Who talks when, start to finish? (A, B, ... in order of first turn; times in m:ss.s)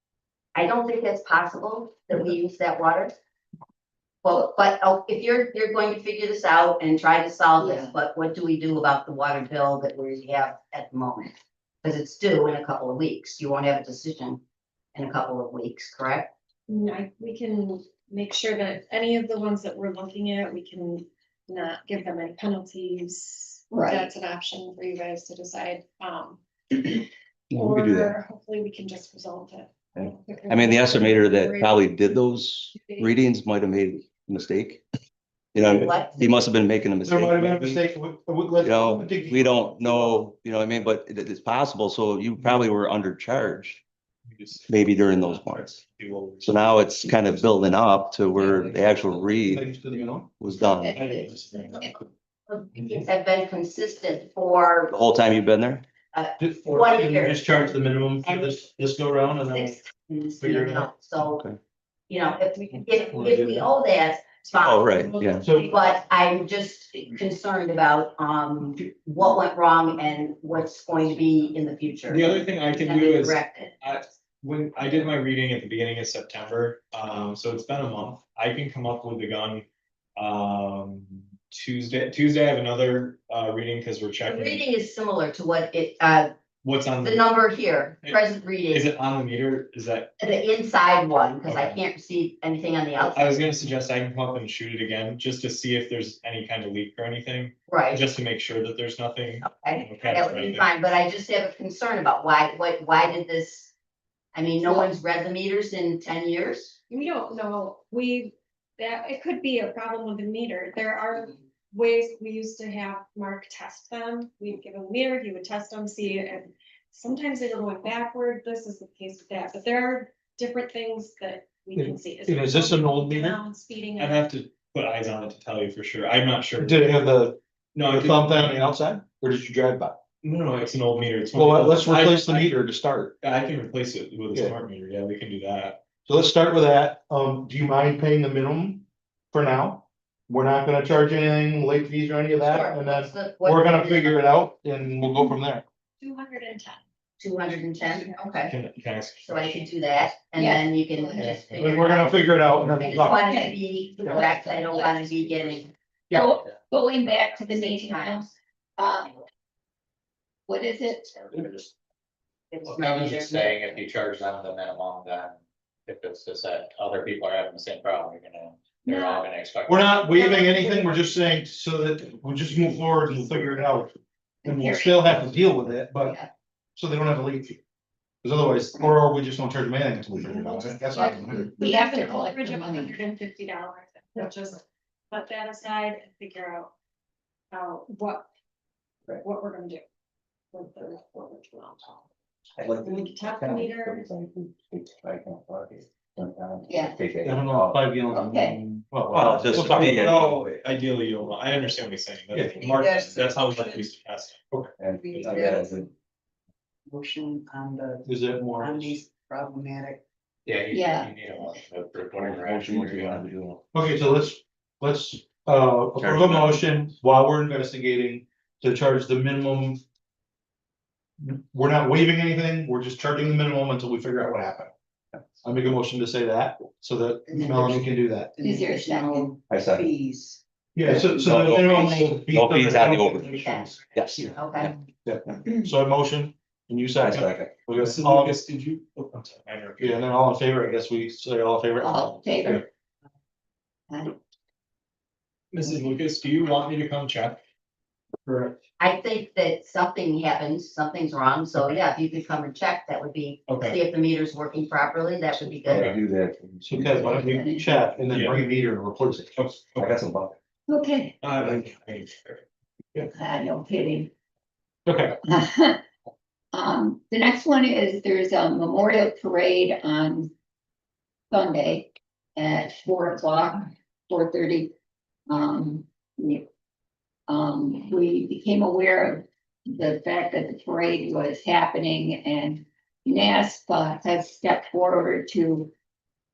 0:00.5-0:03.1 A
0:04.2-0:14.4 A
0:07.6-0:07.9 B
0:14.9-0:16.3 A
0:16.7-0:31.9 C
0:23.7-0:24.1 B
0:27.5-0:28.2 D
0:30.0-0:34.8 D
0:35.5-0:37.8 D
0:35.6-0:36.3 A
0:37.0-0:40.2 E
0:38.6-0:43.8 D
0:44.2-0:46.6 F
0:44.7-0:45.8 D
0:46.4-0:49.7 D
0:48.5-0:48.8 F
0:49.4-0:50.3 E
0:50.4-0:51.0 D
0:50.8-0:51.3 B
0:51.0-0:51.8 F
0:52.5-0:54.9 A
0:54.9-0:55.8 D
0:56.1-0:57.4 A
0:56.4-0:59.8 E
0:58.2-0:58.6 A
0:59.5-1:01.4 A
1:00.4-1:00.9 E
1:01.2-1:01.6 D
1:02.1-1:13.7 A
1:03.1-1:03.7 E
1:04.6-1:05.5 D
1:05.0-1:05.4 C
1:05.4-1:05.8 E
1:12.1-1:19.6 F
1:20.2-1:24.6 F
1:24.2-1:26.3 A
1:26.6-1:27.2 F
1:27.0-1:28.9 A
1:28.7-1:30.2 F
1:30.2-1:33.4 A
1:31.4-1:31.8 F
1:33.0-1:40.7 F
1:37.7-1:38.0 A
1:39.4-1:43.7 A
1:44.3-1:46.8 A
1:46.9-2:04.2 C
2:01.8-2:03.4 E
2:04.0-2:06.9 F
2:06.6-2:10.0 E
2:07.7-2:08.7 F
2:10.2-2:12.5 F
2:11.3-2:13.1 E
2:13.2-2:15.8 F
2:16.0-2:25.6 E
2:22.4-2:24.2 A
2:25.0-2:25.3 C
2:26.0-2:26.8 C
2:27.2-2:28.5 A
2:27.4-2:28.4 C
2:28.4-2:29.6 F
2:29.2-2:35.7 A
2:30.3-2:31.8 B
2:31.2-2:31.4 F
2:31.5-2:33.3 E
2:32.9-2:35.2 B
2:36.1-2:36.3 E
2:36.1-2:39.1 B
2:37.4-2:38.3 A
2:40.5-2:41.6 B
2:42.5-2:43.6 A
2:42.6-2:50.2 G
2:48.9-2:49.2 B
2:49.6-2:56.1 E
2:50.2-2:50.9 B
2:54.4-2:56.3 B
2:56.8-2:57.6 E
2:58.2-3:01.5 E
3:00.3-3:06.7 C
3:01.4-3:03.0 B
3:07.5-3:08.3 C
3:09.1-3:09.8 C
3:10.5-3:12.0 C
3:12.6-3:18.5 D
3:12.8-3:14.1 C
3:16.7-3:17.0 B
3:17.2-3:20.3 E
3:18.3-3:18.6 B
3:19.1-3:20.3 D
3:19.1-3:24.4 F
3:22.5-3:23.8 H
3:24.8-3:25.8 D
3:24.9-3:25.9 H
3:26.9-3:28.0 H
3:28.0-3:29.0 E
3:28.6-3:30.0 H
3:30.4-3:33.3 G
3:30.7-3:31.1 B
3:32.1-3:33.6 D
3:33.7-3:39.8 E
3:36.0-3:36.6 D
3:41.2-3:44.7 E
3:45.4-3:48.3 E
3:47.3-3:54.7 H
3:48.4-3:49.3 B
3:49.5-3:49.9 D
3:50.8-3:53.8 E
3:51.2-3:53.2 D
3:53.9-3:54.7 D
3:54.3-3:54.7 A
3:55.0-3:58.4 E
3:57.0-3:57.6 D
3:57.7-4:00.1 F
3:59.8-4:02.6 E
4:01.8-4:02.6 B
4:05.5-4:07.4 F
4:08.3-4:08.5 F
4:08.8-4:15.9 A
4:13.5-4:13.8 F
4:15.6-4:17.4 D
4:15.7-4:16.0 F
4:16.6-4:19.3 E
4:17.0-4:17.8 B
4:18.1-4:18.4 F
4:19.3-4:20.0 F
4:19.8-4:20.4 D
4:20.7-4:21.2 B
4:21.2-4:22.4 F
4:21.4-4:21.6 D
4:23.1-4:24.1 B
4:24.8-4:25.2 E
4:25.3-4:25.8 B
4:26.5-4:30.3 B
4:31.3-4:34.7 B
4:35.3-4:36.4 B
4:37.3-4:45.7 B